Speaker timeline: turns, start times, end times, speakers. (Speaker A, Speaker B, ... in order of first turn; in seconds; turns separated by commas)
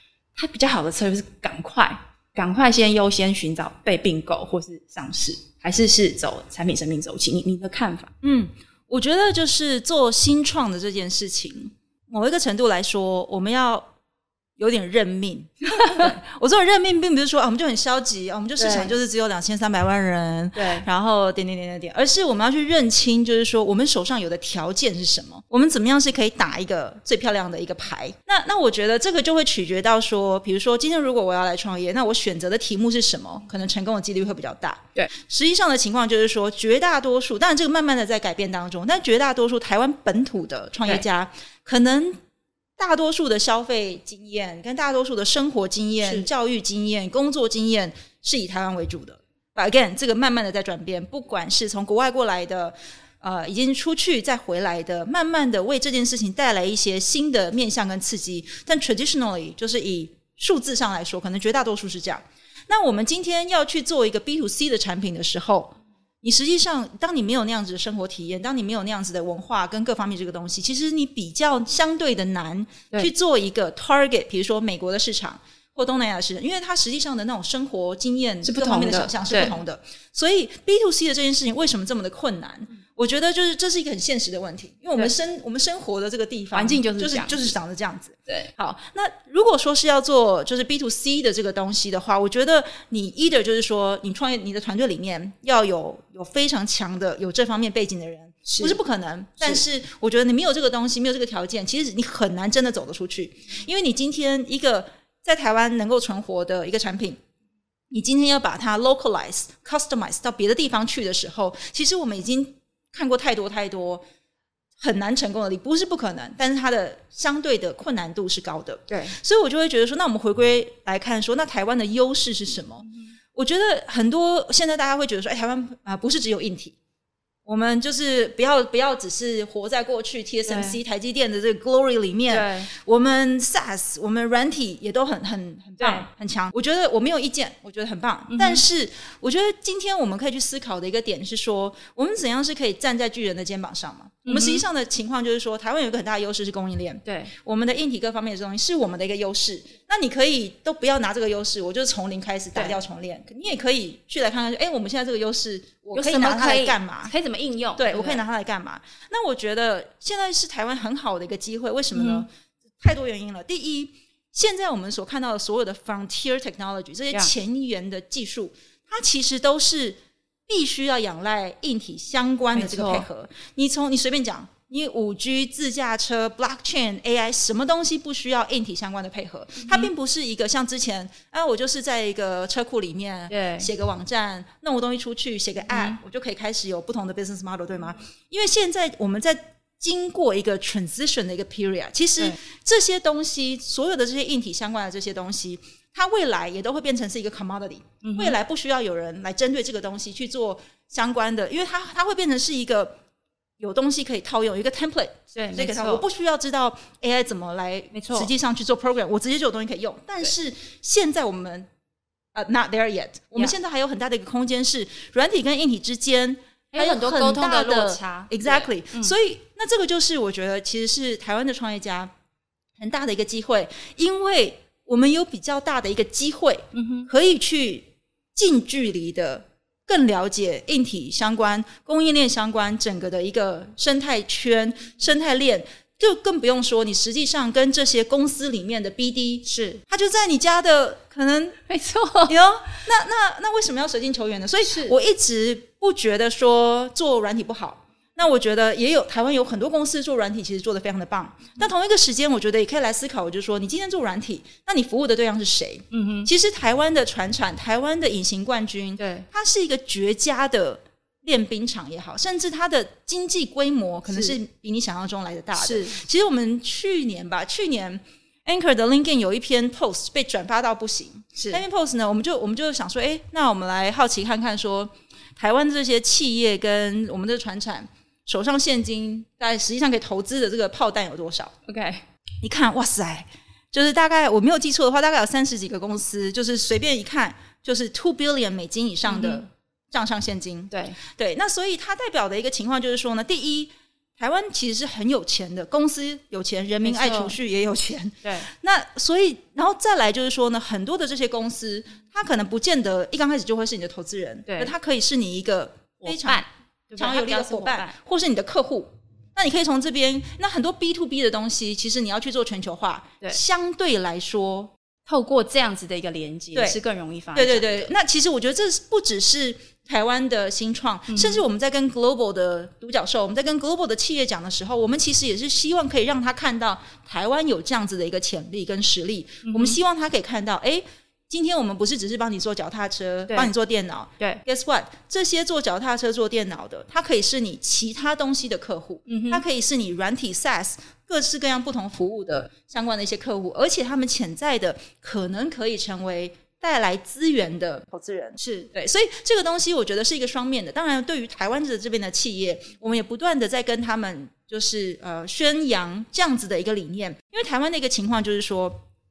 Speaker A: 0.4-8.1, Speaker B: 8.2-13.9, Speaker B: 14.6-42.2, Speaker A: 15.7-16.1, Speaker A: 18.6-18.9, Speaker A: 20.6-20.9, Speaker B: 42.8-107.2, Speaker A: 46.0-46.3, Speaker A: 78.4-79.5, Speaker A: 86.5-87.5, Speaker A: 98.5-98.8, Speaker B: 107.9-114.0, Speaker B: 114.8-126.8, Speaker A: 118.9-119.2, Speaker B: 127.5-157.1, Speaker A: 130.4-130.8, Speaker A: 132.3-132.7, Speaker A: 135.8-136.1, Speaker A: 138.3-138.6, Speaker A: 144.3-144.6, Speaker A: 147.1-147.3, Speaker A: 155.9-158.2, Speaker B: 157.8-162.3, Speaker A: 161.9-162.2, Speaker B: 162.8-203.0, Speaker A: 172.5-173.1, Speaker A: 179.6-179.9, Speaker A: 183.3-183.7, Speaker A: 185.7-186.0, Speaker A: 198.0-198.4, Speaker B: 203.6-211.7, Speaker A: 205.3-206.0, Speaker A: 207.9-208.3, Speaker B: 212.3-222.1, Speaker A: 216.7-219.2, Speaker B: 222.8-241.6, Speaker A: 226.7-227.1, Speaker A: 239.5-239.8, Speaker A: 241.7-242.4, Speaker B: 242.3-281.5, Speaker A: 244.7-244.9, Speaker A: 255.9-256.3, Speaker A: 259.0-259.3, Speaker A: 264.1-264.4, Speaker A: 265.6-266.0, Speaker A: 271.4-271.6, Speaker A: 281.7-282.1, Speaker B: 282.4-306.4, Speaker A: 289.1-289.4, Speaker A: 290.7-291.0, Speaker A: 296.8-297.4, Speaker A: 298.2-298.5, Speaker A: 304.5-304.7, Speaker A: 306.1-308.0, Speaker B: 307.0-314.7, Speaker A: 315.1-317.9, Speaker B: 317.4-358.8, Speaker A: 321.1-321.4, Speaker A: 329.4-329.8, Speaker A: 339.1-339.4, Speaker A: 348.4-348.7